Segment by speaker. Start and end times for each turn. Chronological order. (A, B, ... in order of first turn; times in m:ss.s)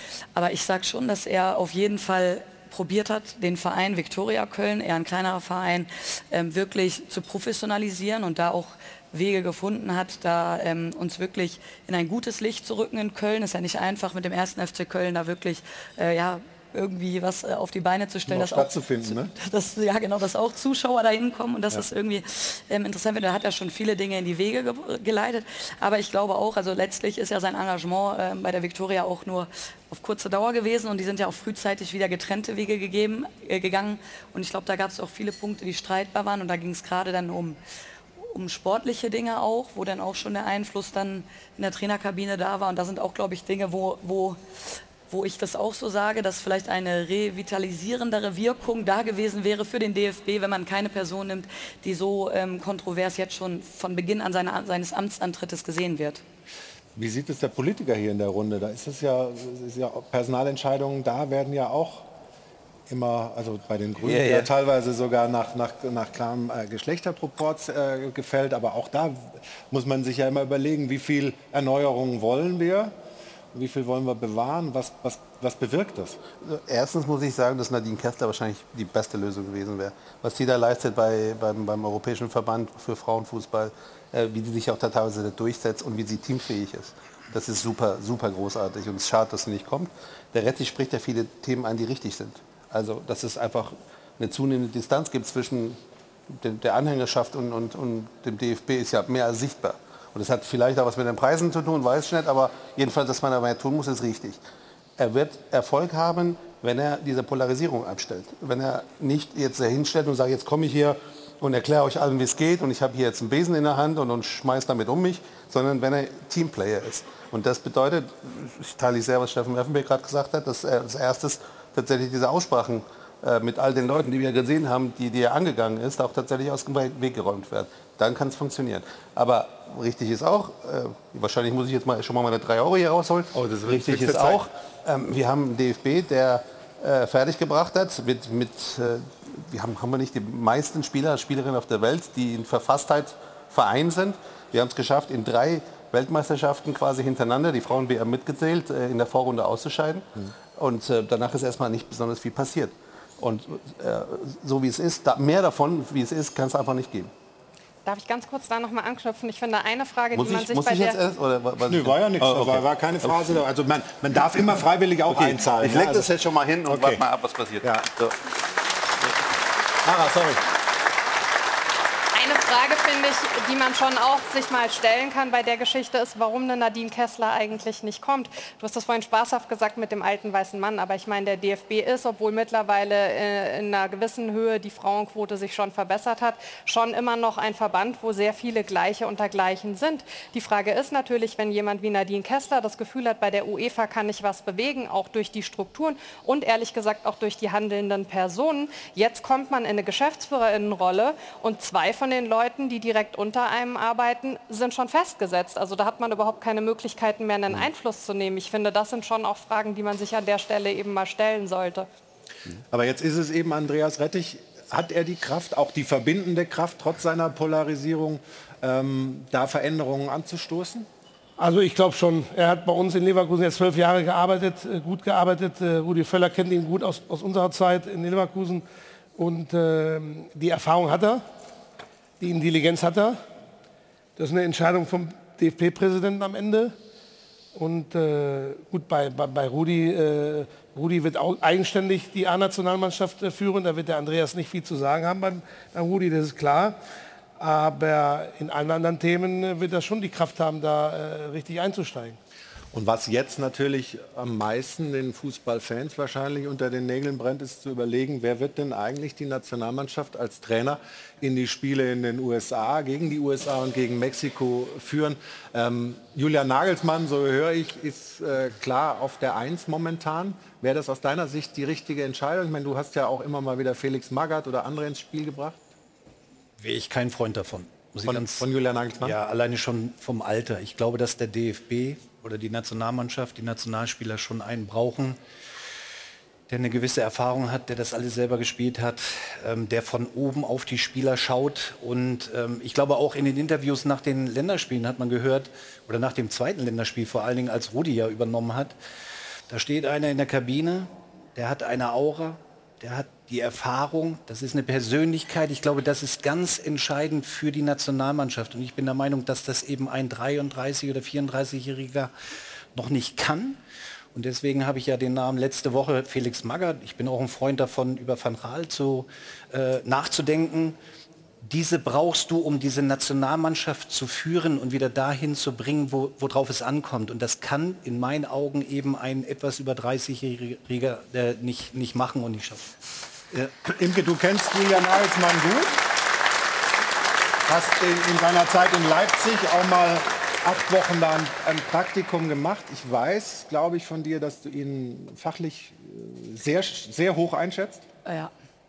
0:00.4-0:37.6 A
0:18.3-0:19.3 B
0:38.2-0:44.4 A
0:45.1-0:56.2 A
0:56.9-1:02.1 B
1:02.9-1:12.9 B
1:04.0-1:04.5 C
1:13.5-1:16.2 B
1:16.4-1:44.4 C
1:45.0-2:30.0 C
2:13.3-2:14.4 B
2:30.6-2:37.1 C
2:37.9-2:41.0 D
2:40.1-2:43.2 C
2:41.6-2:46.1 B
2:45.1-2:48.1 C
2:46.7-2:47.0 B
2:47.6-2:47.9 B
2:49.8-2:50.4 B
2:52.1-3:31.9 D
3:32.7-3:40.9 B
3:41.4-3:48.6 E
3:49.2-3:51.2 E
3:52.2-3:53.2 E
3:54.2-3:56.8 E
3:57.6-4:06.8 E
4:07.4-4:12.2 E
4:12.7-4:35.6 B
4:36.6-4:38.5 F
4:38.0-4:39.2 B
4:39.0-4:45.2 F
4:46.5-4:58.8 F
4:59.5-5:12.1 F
5:12.8-5:13.6 F
5:14.1-5:20.8 F
5:21.4-5:32.7 F
5:33.3-5:35.8 B
5:37.5-5:47.8 B
5:48.1-5:48.3 A